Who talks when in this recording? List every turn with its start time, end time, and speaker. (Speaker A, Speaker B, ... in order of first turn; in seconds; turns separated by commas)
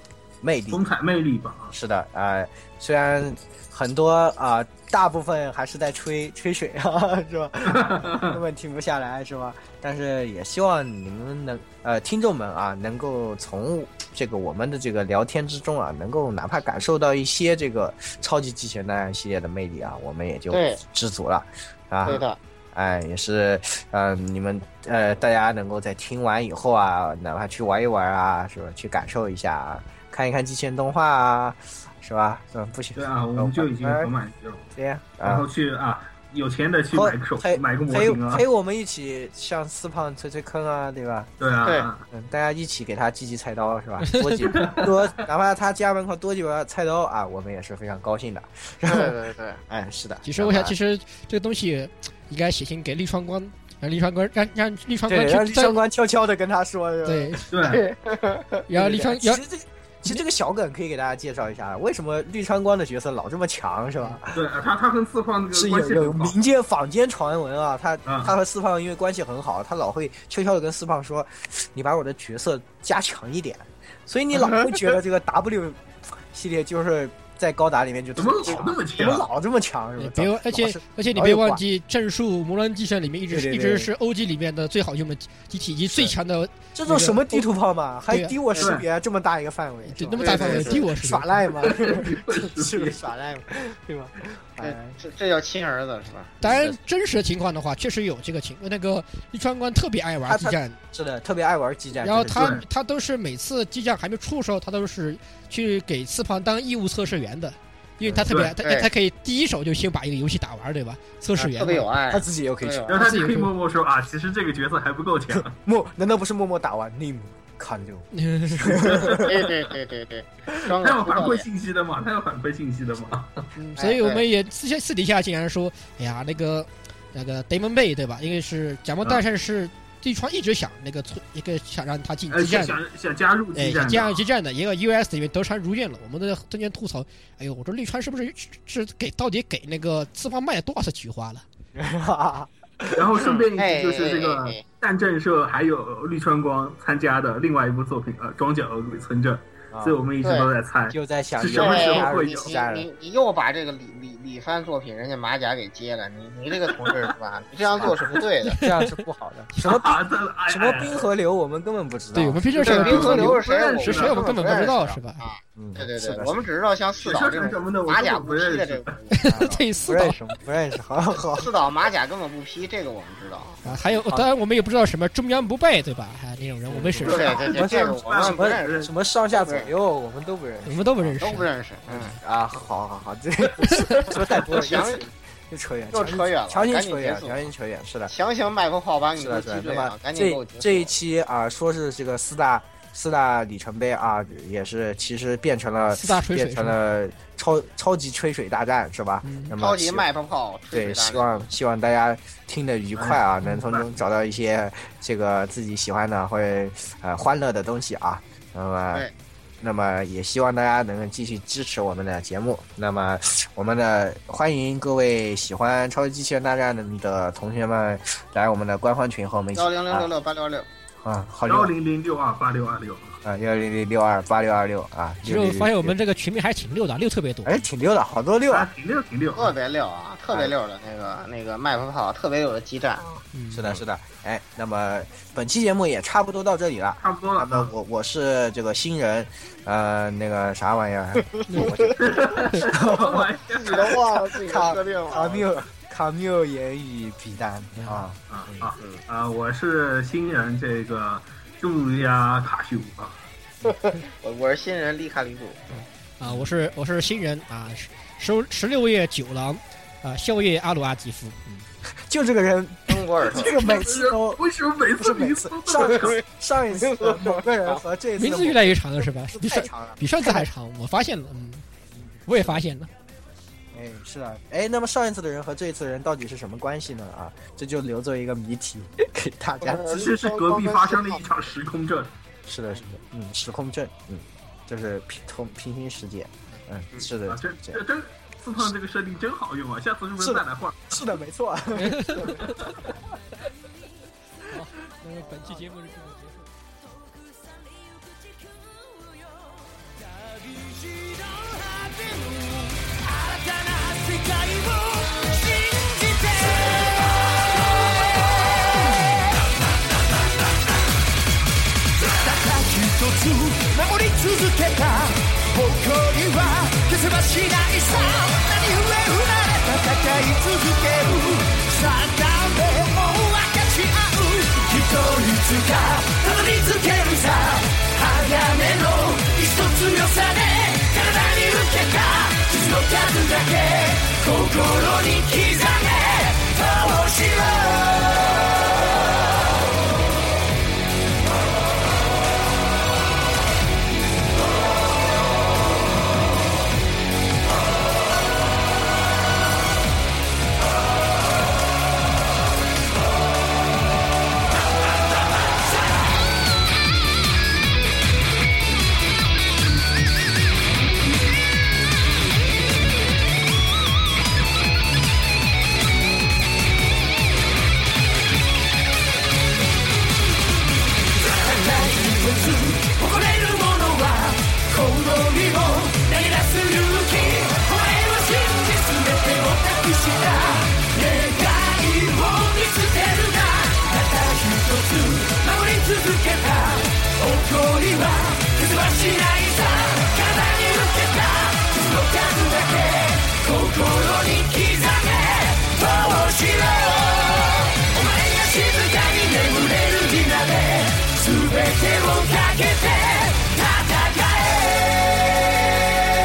Speaker A: 0.4-0.8, Speaker B: 0.7-1.7, Speaker A: 1.7-34.1, Speaker B: 7.7-8.4, Speaker C: 20.5-20.8, Speaker C: 22.1-22.4, Speaker B: 33.0-34.7, Speaker A: 34.8-35.5, Speaker B: 35.2-38.4, Speaker A: 36.9-41.3, Speaker B: 41.4-42.0, Speaker A: 42.1-50.8, Speaker D: 44.0-44.5, Speaker B: 44.5-45.2, Speaker C: 48.9-49.6, Speaker D: 50.2-55.8, Speaker A: 55.1-57.5, Speaker D: 57.0-57.5, Speaker B: 57.5-57.9, Speaker C: 57.7-58.6, Speaker D: 58.7-59.4, Speaker A: 58.8-64.5, Speaker B: 64.3-66.4, Speaker A: 65.5-81.6, Speaker B: 68.1-68.3, Speaker B: 78.2-79.3, Speaker D: 80.0-87.5, Speaker A: 83.3-83.9, Speaker A: 85.9-86.2, Speaker A: 86.7-95.0, Speaker D: 88.1-88.4, Speaker B: 88.6-88.8, Speaker D: 89.9-91.3, Speaker C: 90.2-90.9, Speaker B: 91.6-93.0, Speaker C: 94.6-96.5, Speaker D: 96.4-100.8, Speaker A: 96.5-96.7, Speaker A: 100.3-102.5, Speaker D: 102.0-111.9, Speaker B: 102.3-102.6, Speaker A: 108.0-108.3, Speaker B: 108.3-108.6, Speaker C: 108.6-108.9, Speaker C: 111.4-113.0, Speaker A: 112.1-113.0, Speaker B: 112.9-115.5, Speaker D: 113.0-113.5, Speaker A: 115.4-119.5, Speaker D: 118.1-118.9, Speaker B: 118.8-119.3, Speaker C: 119.1-121.5, Speaker B: 120.8-123.4, Speaker D: 123.6-132.8, Speaker C: 123.8-124.2, Speaker B: 132.3-134.2, Speaker D: 133.6-141.4, Speaker A: 141.8-143.1, Speaker B: 142.9-152.5, Speaker C: 143.2-144.6, Speaker A: 149.7-150.0, Speaker C: 150.2-150.5, Speaker A: 150.9-152.9, Speaker C: 151.5-158.7, Speaker B: 156.7-157.1, Speaker A: 157.7-160.0, Speaker D: 158.4-159.0, Speaker B: 159.6-161.1, Speaker A: 160.5-163.3, Speaker D: 162.1-165.2, Speaker B: 162.6-164.3, Speaker C: 162.7-169.7, Speaker A: 165.6-166.4, Speaker B: 167.0-169.0, Speaker D: 169.1-170.2, Speaker A: 169.3-171.5, Speaker C: 171.3-173.8, Speaker D: 173.6-177.4, Speaker A: 176.7-181.2, Speaker C: 177.0-179.7, Speaker B: 177.1-178.9, Speaker D: 180.7-181.5, Speaker C: 181.2-182.2, Speaker A: 181.9-188.1, Speaker D: 183.7-184.1, Speaker C: 183.9-185.1, Speaker C: 185.9-187.5, Speaker C: 188.1-190.9, Speaker A: 189.2-200.1, Speaker D: 195.9-196.8, Speaker D: 199.2-199.6, Speaker C: 199.6-201.3, Speaker A: 200.7-209.1, Speaker B: 202.9-203.9, Speaker A: 209.6-220.1, Speaker C: 219.6-220.7, Speaker A: 221.0-221.7, Speaker B: 221.5-223.2, Speaker A: 223.2-225.9, Speaker D: 225.2-227.7, Speaker A: 227.4-228.7, Speaker B: 228.5-229.6, Speaker C: 229.3-233.2, Speaker D: 233.3-233.8, Speaker A: 233.5-243.3, Speaker B: 237.0-237.7, Speaker D: 241.5-241.9, Speaker C: 241.5-242.2, Speaker B: 242.0-244.0, Speaker C: 243.5-245.5, Speaker A: 244.4-248.7, Speaker B: 248.3-253.2, Speaker C: 253.6-255.7, Speaker D: 256.2-261.6, Speaker A: 261.9-264.4, Speaker C: 262.9-263.5, Speaker B: 263.3-266.2, Speaker A: 265.0-270.5, Speaker C: 265.8-267.8, Speaker D: 268.2-271.6, Speaker D: 272.3-272.9, Speaker A: 273.7-279.9, Speaker C: 279.6-281.2, Speaker B: 279.9-282.1, Speaker A: 282.5-287.8, Speaker B: 286.9-291.0, Speaker A: 290.2-292.4, Speaker D: 291.7-292.6, Speaker B: 292.4-292.9, Speaker D: 294.5-296.4, Speaker E: 297.4-309.6, Speaker E: 312.1-339.0, Speaker E: 371.2-405.5